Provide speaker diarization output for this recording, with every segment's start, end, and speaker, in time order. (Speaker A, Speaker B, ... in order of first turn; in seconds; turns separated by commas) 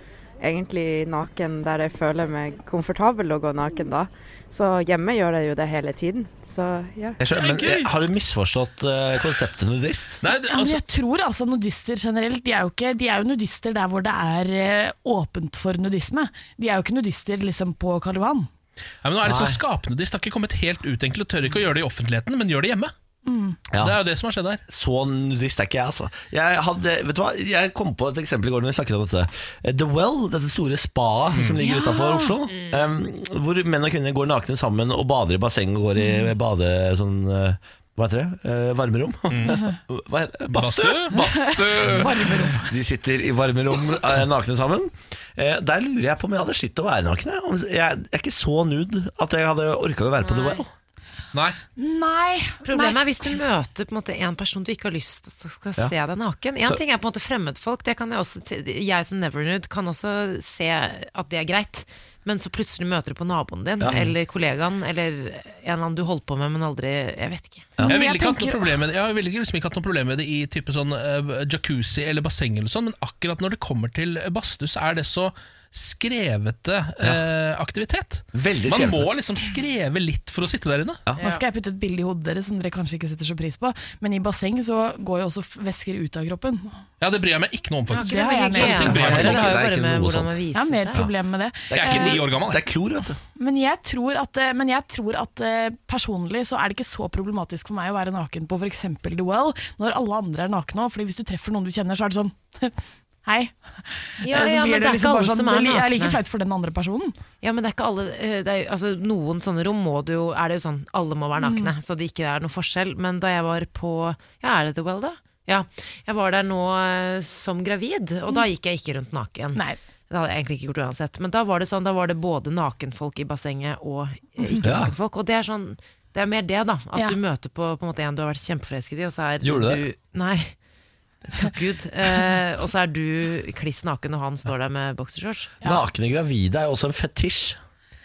Speaker A: 0.4-7.2, Speaker B: 7.2-10.2, Speaker C: 7.3-7.9, Speaker C: 10.2-10.8, Speaker D: 10.5-18.5, Speaker C: 19.0-22.9, Speaker B: 19.2-19.6, Speaker D: 23.2-23.6, Speaker B: 23.7-24.0, Speaker C: 23.8-24.6, Speaker B: 24.7-42.0, Speaker D: 31.6-32.4, Speaker E: 32.5-32.8, Speaker C: 39.3-39.6, Speaker C: 40.5-42.5, Speaker D: 41.4-42.7, Speaker B: 42.7-50.7, Speaker E: 50.2-50.6, Speaker D: 51.8-53.0, Speaker E: 52.6-67.7, Speaker B: 63.8-64.1, Speaker D: 67.8-68.8, Speaker C: 67.8-81.0, Speaker B: 78.3-79.1, Speaker E: 81.2-81.4, Speaker D: 81.2-86.8, Speaker C: 87.0-89.5, Speaker E: 87.9-91.0, Speaker D: 87.9-89.0, Speaker B: 88.8-90.4, Speaker D: 90.5-92.3, Speaker B: 91.7-93.2, Speaker C: 91.7-92.6, Speaker D: 93.3-107.1, Speaker E: 104.2-106.2, Speaker E: 107.4-130.6, Speaker D: 111.4-111.7, Speaker B: 124.6-124.9, Speaker B: 129.4-129.8, Speaker E: 131.3-135.5, Speaker B: 135.6-137.6